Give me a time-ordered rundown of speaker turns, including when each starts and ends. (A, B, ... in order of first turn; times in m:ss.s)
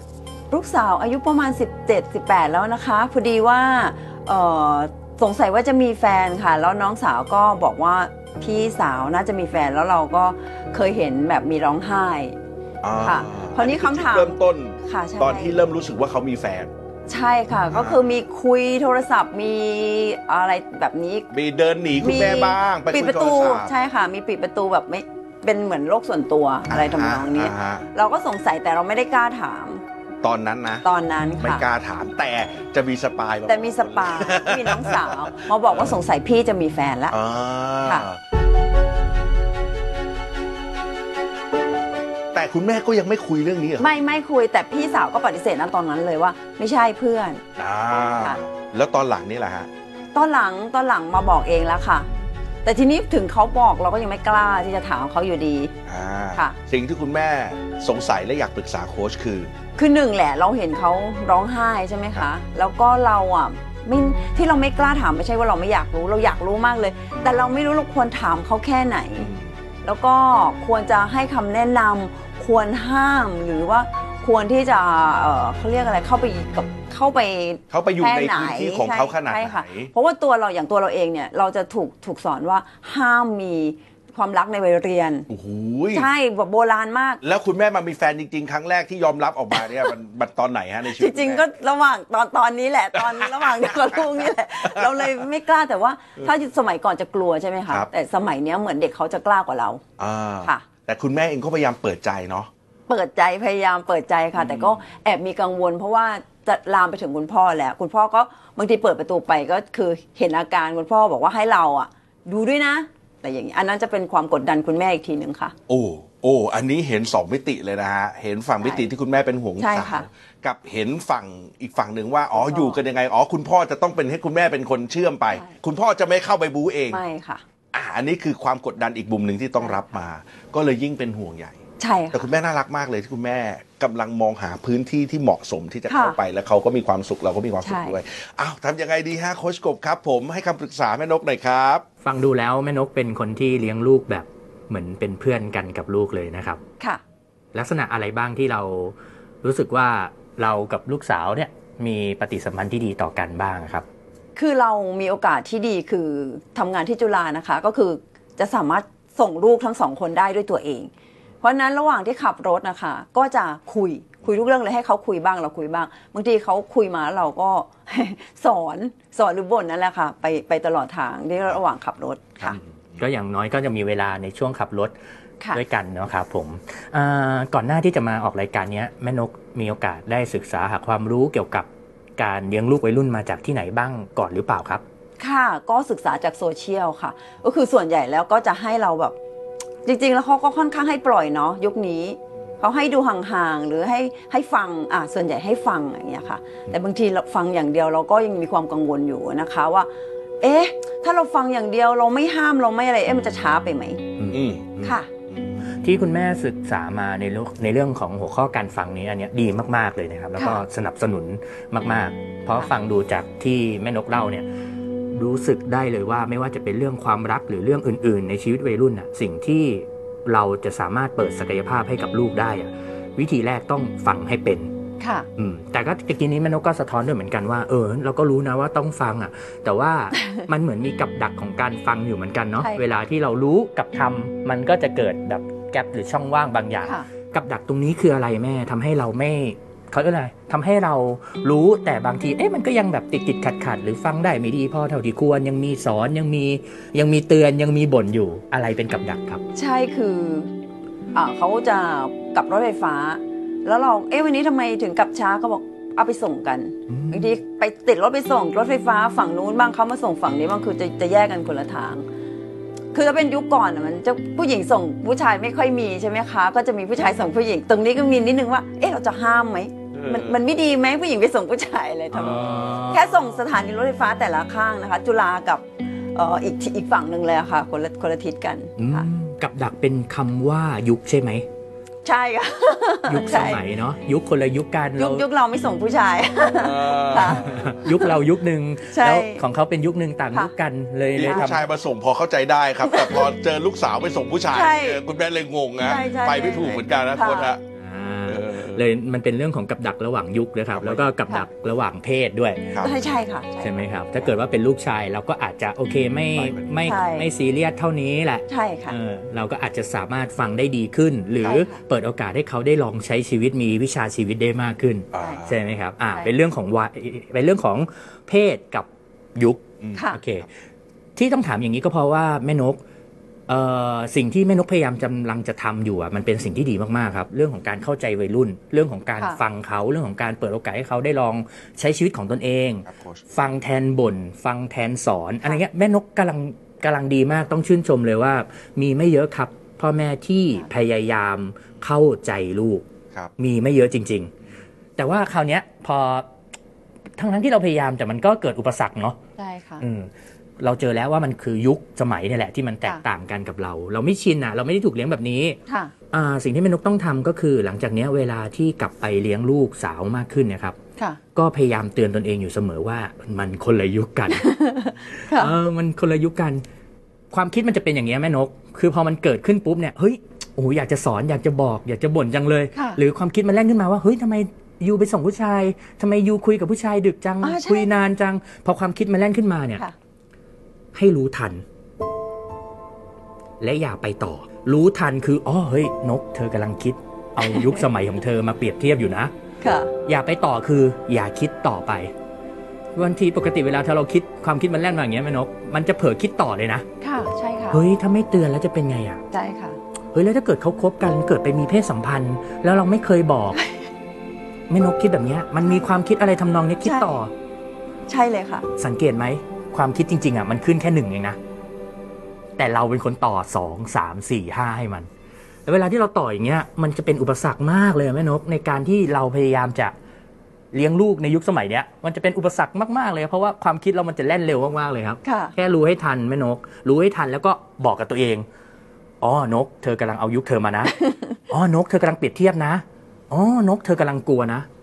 0:00.5-0:12.4 A
0:12.8-0:16.7 B
0:13.0-0:15.6 A
0:17.1-0:21.3 A
0:17.7-0:18.0 B
0:21.3-0:23.7 B
0:22.0-0:29.8 A
0:26.7-0:27.9 B
0:30.2-0:30.8 B
0:30.8-0:31.6 A
0:31.4-0:35.9 B
0:33.5-0:37.2 A
0:37.1-0:38.2 B
0:42.3-0:43.9 B
0:43.8-0:47.4 A
0:47.6-0:49.7 B
0:50.1-0:52.1 A
0:52.6-0:55.7 A
0:55.8-0:59.5 B
0:59.8-1:09.3 A
1:09.2-1:09.5 B
1:09.8-1:25.3 A
1:17.7-1:19.9 B
1:25.3-1:26.1 B
1:25.9-1:27.2 A
1:27.2-1:31.4 B
1:30.9-1:39.8 A
1:33.0-1:34.0 B
1:34.8-1:35.0 B
1:40.0-1:42.5 B
1:42.9-1:55.5 A
1:44.4-1:44.8 B
1:55.7-2:07.0 B
1:58.6-1:58.9 A
1:59.6-2:00.1 A
2:02.3-2:02.8 A
2:06.9-2:07.4 A
2:07.7-2:11.6 B
2:11.8-2:12.3 A
2:12.1-2:21.8 B
2:15.9-2:16.2 A
2:17.6-2:18.0 A
2:22.0-2:26.6 C
2:27.5-2:33.8 C
2:34.4-2:40.9 A
2:41.4-2:52.6 A
2:53.0-2:54.9 C
2:55.5-3:04.8 C
3:05.2-3:09.2 A
3:09.8-3:19.9 A
3:20.4-3:24.0 A
3:24.3-3:25.8 B
3:24.8-3:25.1 A
3:25.8-3:34.4 C
3:30.4-3:30.6 A
3:35.1-3:44.7 C
3:45.0-3:45.3 A
3:45.4-4:09.4 C
4:09.5-4:10.5 A
4:11.1-4:22.0 A
4:16.9-4:17.3 C
4:22.9-4:39.1 A
4:29.9-4:30.4 B
4:32.1-4:33.2 C
4:38.8-4:41.4 C
4:42.0-4:43.6 A
4:43.1-4:45.2 C
4:45.0-4:48.2 A
4:46.5-4:47.8 B
4:47.2-4:51.6 C
4:48.9-4:49.4 A
4:51.1-4:57.6 B
4:51.3-4:51.5 A
4:52.8-4:53.2 A
4:54.5-4:55.0 A
4:55.8-4:57.5 A
4:57.8-5:02.8 C
4:58.3-4:58.8 B
5:00.7-5:01.0 B
5:02.7-5:03.0 B
5:02.8-5:04.3 A
5:03.6-5:20.4 C
5:06.3-5:06.8 B
5:06.8-5:07.3 A
5:08.5-5:09.0 A
5:11.4-5:11.8 A
5:15.1-5:15.6 B
5:15.2-5:15.4 A
5:21.2-5:22.8 C
5:23.5-5:42.8 C
5:32.9-5:33.2 B
5:43.4-5:44.3 C
5:45.0-5:46.3 C
5:47.2-5:49.2 C
5:49.4-5:49.8 A
5:49.8-5:50.1 C
5:50.6-5:55.6 C
5:55.7-5:55.9 A
5:56.1-6:00.8 C
6:01.3-6:04.6 C
6:04.3-6:05.5 A
6:05.2-6:06.6 C
6:07.3-6:19.8 C
6:12.7-6:13.0 A
6:17.4-6:17.9 A
6:20.9-6:21.6 C
6:23.6-6:29.3 C
6:27.4-6:27.8 A
6:29.6-6:29.9 A
6:30.0-6:32.1 C
6:32.9-6:36.8 C
6:37.0-6:37.8 A
6:37.7-6:39.2 C
6:39.3-6:39.8 A
6:40.1-6:43.6 C
6:43.5-6:43.8 A
6:44.7-6:47.3 C
6:46.8-6:47.2 A
6:48.1-6:48.7 A
6:48.8-6:51.4 C
6:52.6-6:55.1 C
6:55.6-6:59.9 C
7:00.7-7:08.4 C
7:05.2-7:05.5 A
7:09.2-7:14.7 C